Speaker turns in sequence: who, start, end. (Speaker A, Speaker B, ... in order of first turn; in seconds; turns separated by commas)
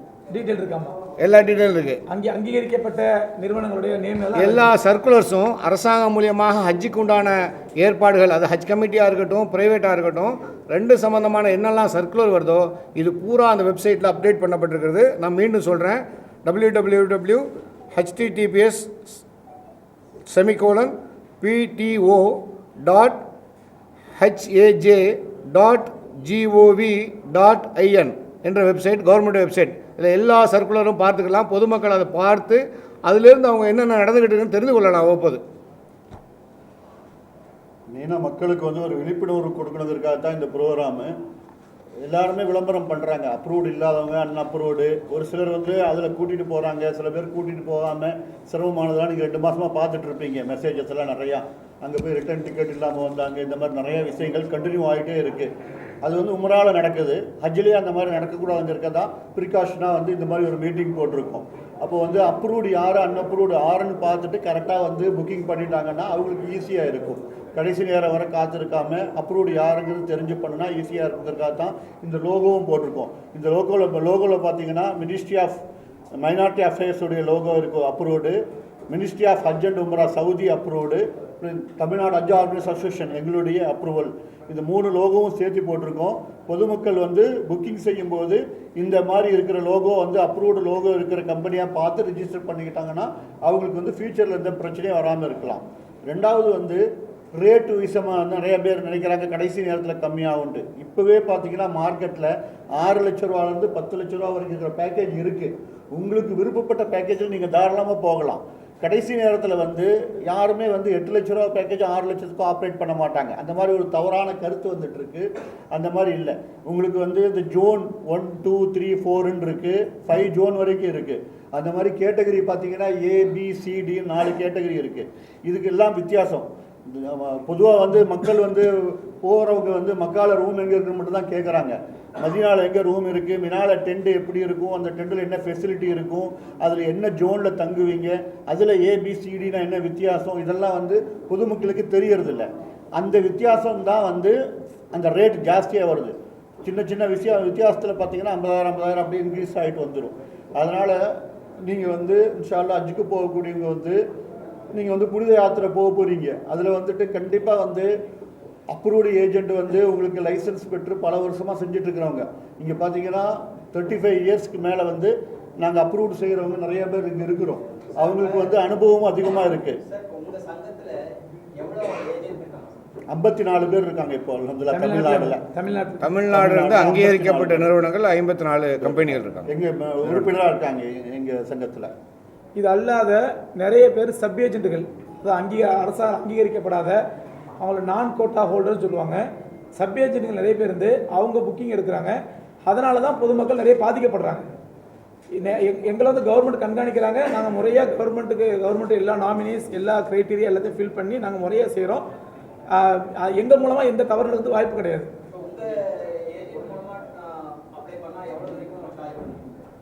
Speaker A: 0.3-0.9, Speaker B: 1.2-2.0, Speaker A: 2.1-4.7, Speaker B: 4.3-19.2, Speaker B: 20.3-23.2, Speaker B: 24.1-35.4, Speaker C: 37.9-41.1, Speaker C: 42.0-75.6, Speaker C: 76.1-96.8, Speaker C: 97.3-144.3, Speaker C: 144.9-154.0, Speaker C: 154.7-157.9, Speaker C: 158.7-169.8, Speaker D: 167.9-168.6, Speaker D: 169.8-171.0, Speaker D: 171.6-172.8, Speaker C: 173.1-175.4, Speaker A: 174.7-176.0, Speaker B: 176.0-179.5, Speaker C: 176.3-177.7, Speaker C: 178.9-181.9, Speaker A: 182.6-187.0, Speaker A: 187.6-189.2, Speaker A: 189.8-194.4, Speaker A: 195.3-202.1, Speaker A: 202.7-205.1, Speaker D: 205.3-209.6